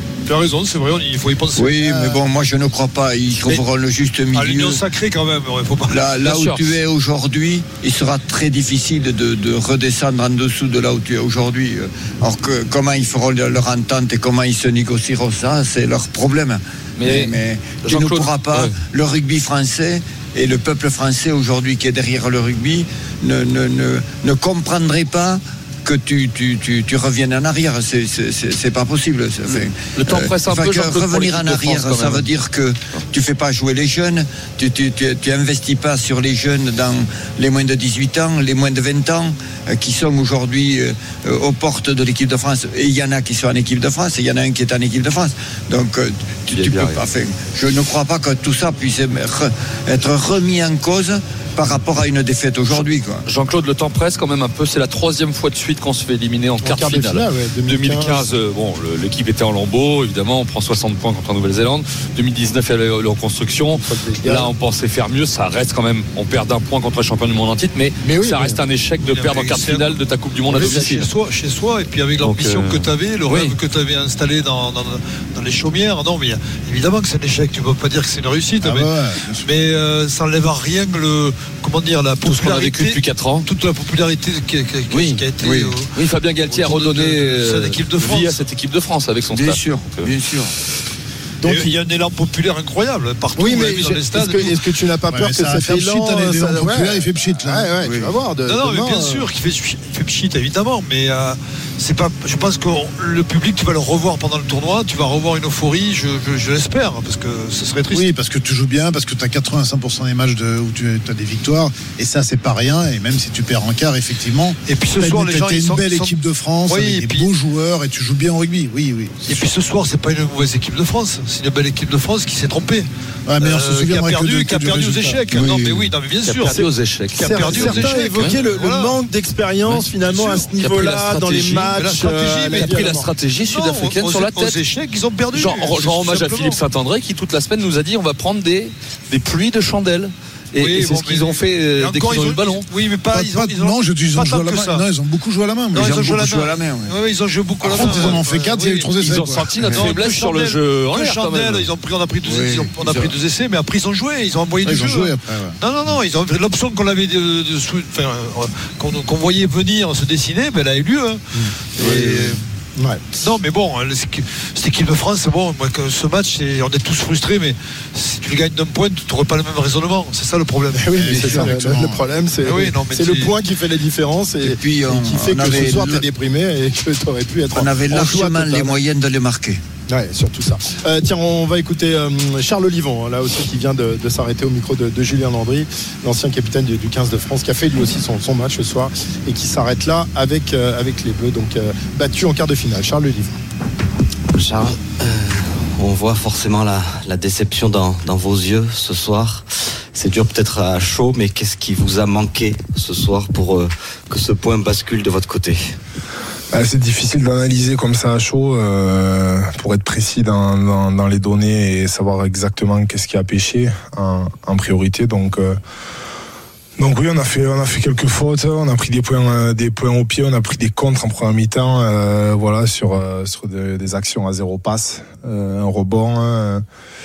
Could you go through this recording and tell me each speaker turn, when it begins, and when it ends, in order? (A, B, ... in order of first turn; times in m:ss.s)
0:00.2-0:01.8 A
0:01.6-0:04.8 B
0:01.8-0:02.2 C
0:04.3-0:06.0 A
0:05.9-0:53.2 B
0:06.2-0:06.8 D
0:17.0-0:18.8 D
0:29.4-0:32.3 D
0:46.5-0:47.0 D
0:52.7-1:11.1 D
0:56.6-0:58.3 E
1:03.7-1:04.5 E
1:08.0-1:08.6 E
1:09.0-1:25.9 A
1:10.5-1:10.8 E
1:12.2-1:13.6 D
1:18.6-1:19.5 C
1:22.2-1:23.5 D
1:24.9-1:25.3 D
1:25.4-1:25.7 B
1:25.9-1:30.1 D
1:26.5-1:28.4 A
1:29.3-1:30.5 B
1:31.4-1:31.8 E
1:31.4-1:34.7 A
1:33.4-1:39.3 E
1:35.1-1:37.9 C
1:38.4-1:48.1 A
1:47.9-1:59.5 C
1:54.6-1:57.3 A
1:59.3-2:06.6 A
2:03.2-2:05.9 C
2:06.2-2:08.4 D
2:06.5-2:13.1 E
2:07.2-2:09.0 A
2:10.1-2:10.5 A
2:10.4-2:14.6 D
2:11.7-2:16.6 A
2:15.3-2:22.7 D
2:20.6-2:24.8 A
2:23.1-2:26.1 C
2:25.7-2:28.9 A
2:25.8-2:26.9 B
2:27.6-2:29.5 C
2:27.8-2:28.2 D
2:29.0-2:31.7 D
2:29.6-2:41.2 A
2:32.3-2:33.1 B
2:34.6-2:35.6 C
2:41.3-2:43.0 E
2:41.8-2:42.4 A
2:43.1-2:51.6 A
2:50.7-2:58.8 E
2:51.0-2:52.0 C
2:52.4-2:53.4 A
2:54.4-2:56.1 B
2:57.5-2:59.6 B
2:59.9-3:13.4 E
3:14.3-3:25.7 F
3:26.5-3:35.6 G
3:36.8-3:46.6 G